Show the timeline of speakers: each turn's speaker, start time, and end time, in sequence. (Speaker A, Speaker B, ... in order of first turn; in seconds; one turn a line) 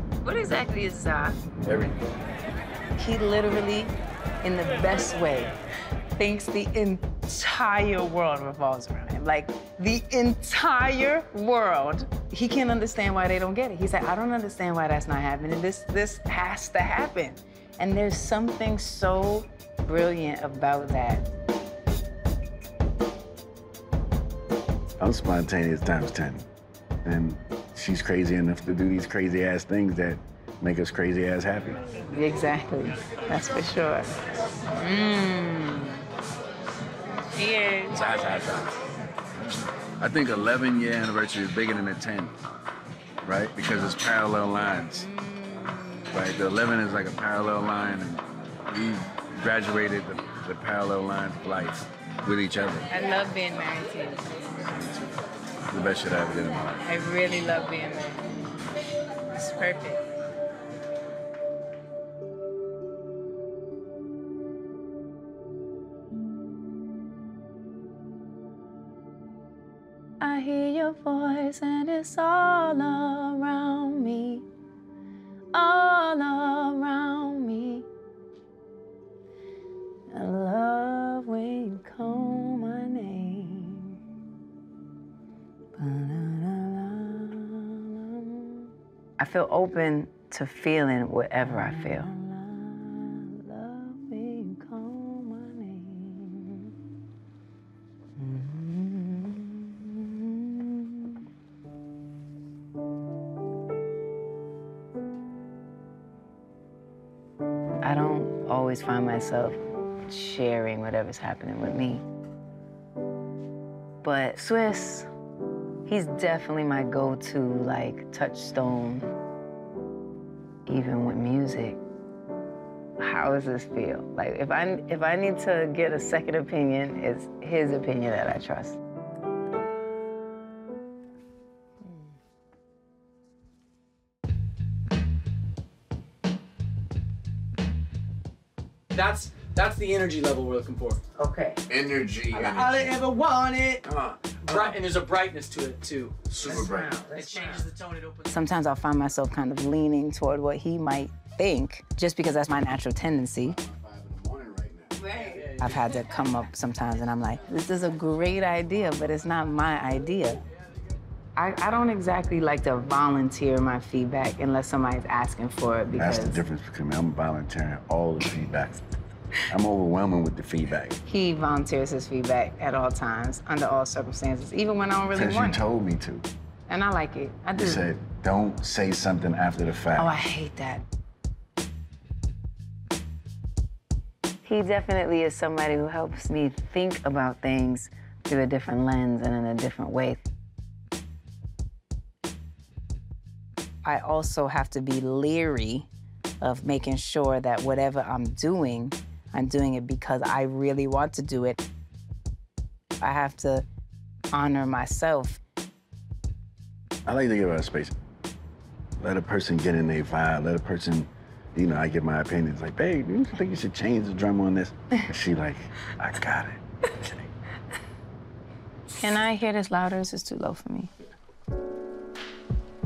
Speaker A: 0.2-1.4
Speaker B: 1.6-2.0
Speaker A: 2.9-5.5
Speaker A: 6.2-21.3
Speaker B: 25.0-26.4
Speaker B: 27.0-31.8
Speaker A: 32.1-34.1
Speaker A: 34.8-36.1
Speaker A: 37.3-38.1
Speaker B: 37.9-38.7
Speaker B: 39.4-42.3
Speaker B: 43.2-45.1
Speaker A: 45.0-45.9
Speaker B: 46.1-52.9
Speaker A: 52.9-54.3
Speaker B: 54.6-56.8
Speaker A: 56.8-58.2
Speaker A: 59.3-60.0
Speaker A: 70.2-74.5
Speaker A: 75.5-77.9
Speaker A: 80.1-84.0
Speaker A: 85.8-96.7
Speaker A: 98.2-101.1
Speaker A: 107.8-112.0
Speaker A: 114.0-115.1
Speaker A: 115.8-119.1
Speaker A: 120.7-121.8
Speaker A: 123.0-128.8
Speaker C: 138.9-141.0
Speaker A: 141.1-141.6
Speaker B: 141.7-142.9
Speaker C: 142.3-148.3
Speaker B: 143.8-144.8
Speaker B: 146.3-147.0
Speaker A: 146.4-147.6
Speaker A: 148.3-153.6
Speaker B: 153.4-155.0
Speaker A: 155.0-160.4
Speaker C: 155.1-155.8
Speaker A: 161.3-166.4
Speaker B: 165.9-168.8
Speaker B: 169.5-171.0
Speaker A: 171.0-175.6
Speaker B: 175.1-176.3
Speaker A: 176.7-177.9
Speaker B: 177.5-180.2
Speaker A: 179.9-180.8
Speaker A: 184.4-190.2
Speaker A: 193.8-195.9
Speaker A: 196.4-201.6
Speaker A: 203.0-203.7
Speaker A: 204.3-205.4
Speaker B: 207.1-207.9
Speaker B: 209.0-217.3
Speaker A: 218.9-220.9